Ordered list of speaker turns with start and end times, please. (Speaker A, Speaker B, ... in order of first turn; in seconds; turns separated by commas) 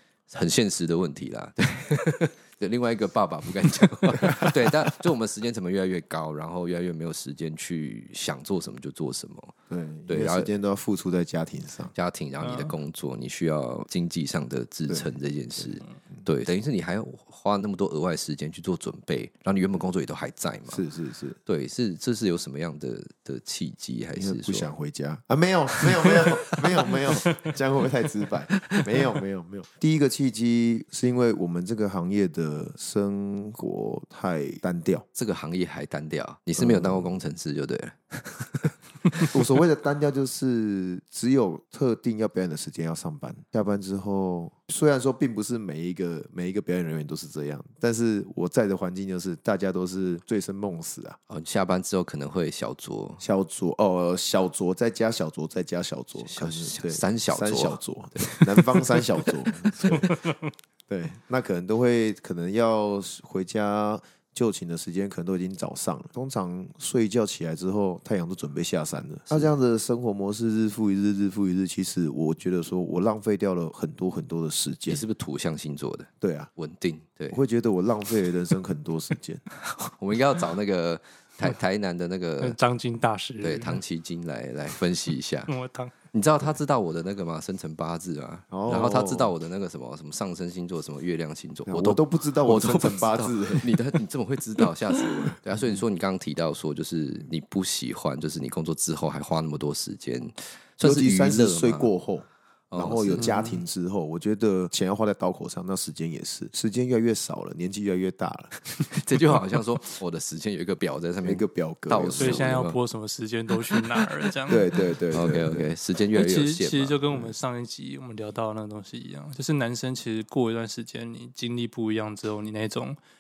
Speaker A: 0.3-9.5, Speaker B: 4.2-4.5, Speaker B: 9.7-11.9, Speaker A: 10.1-10.5, Speaker A: 11.9-20.8, Speaker C: 12.4-12.7, Speaker B: 20.7-21.4, Speaker A: 21.5-24.7, Speaker B: 24.2-35.0, Speaker A: 35.1-39.3, Speaker B: 36.6-37.1, Speaker B: 39.2-51.2, Speaker A: 51.3-53.2, Speaker B: 53.2-60.2, Speaker A: 56.2-60.1, Speaker C: 60.0-60.4, Speaker B: 60.9-75.0, Speaker A: 74.9-77.4, Speaker B: 76.2-76.5, Speaker B: 77.3-79.5, Speaker A: 79.6-82.6, Speaker C: 82.4-83.8, Speaker A: 83.4-85.5, Speaker C: 85.5-85.9, Speaker A: 86.1-101.9, Speaker B: 88.5-89.3, Speaker B: 91.7-93.8, Speaker B: 100.8-108.6, Speaker A: 102.7-103.5, Speaker C: 103.2-103.4, Speaker A: 108.8-112.8, Speaker B: 111.2-112.5, Speaker C: 112.2-115.2, Speaker B: 114.5-115.6, Speaker A: 115.1-117.3, Speaker C: 116.1-123.0